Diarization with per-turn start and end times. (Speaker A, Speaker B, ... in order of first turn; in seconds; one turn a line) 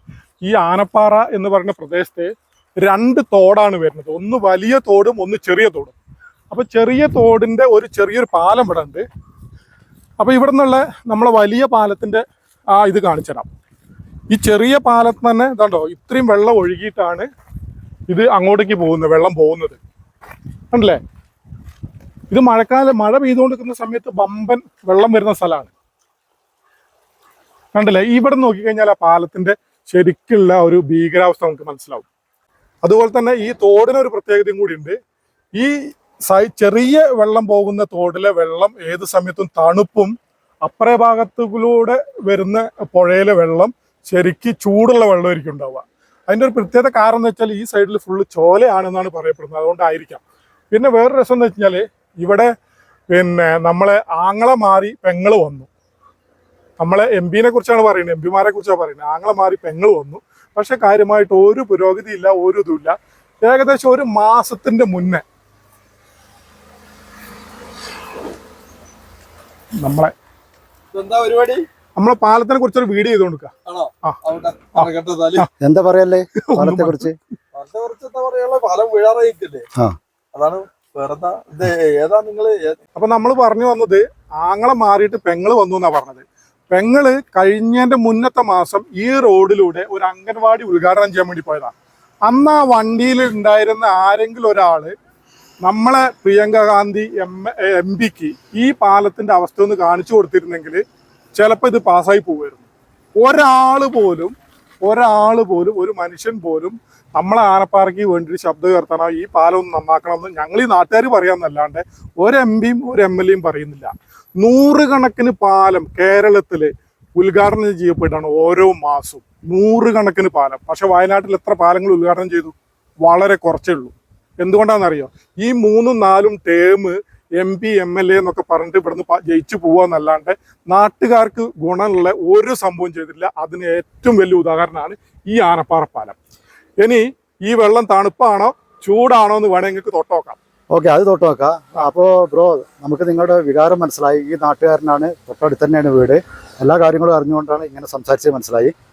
Speaker A: 0.4-6.0
Speaker A: 6.5-9.1
Speaker A: 10.2-12.2
Speaker A: 12.8-13.5
Speaker A: 14.3-17.3
Speaker A: 18.1-19.8
Speaker A: 20.7-21.0
Speaker A: 22.3-25.7
Speaker A: 27.8-32.0
Speaker A: 32.8-35.0
Speaker A: 35.6-40.1
Speaker A: 40.6-52.5
Speaker A: 53.1-55.7
Speaker A: 56.8-65.2
Speaker A: 69.8-70.1
Speaker B: 70.9-71.7
Speaker A: 72.0-73.5
Speaker B: 73.7-75.5
Speaker A: 74.8-75.5
Speaker C: 75.6-77.2
Speaker A: 76.5-77.1
Speaker B: 77.5-79.7
Speaker B: 80.3-82.8
Speaker A: 83.0-91.7
Speaker A: 92.3-94.9
Speaker A: 95.6-100.8
Speaker A: 101.4-122.5
Speaker A: 123.0-136.2
Speaker A: 136.8-140.4
Speaker C: 140.7-148.7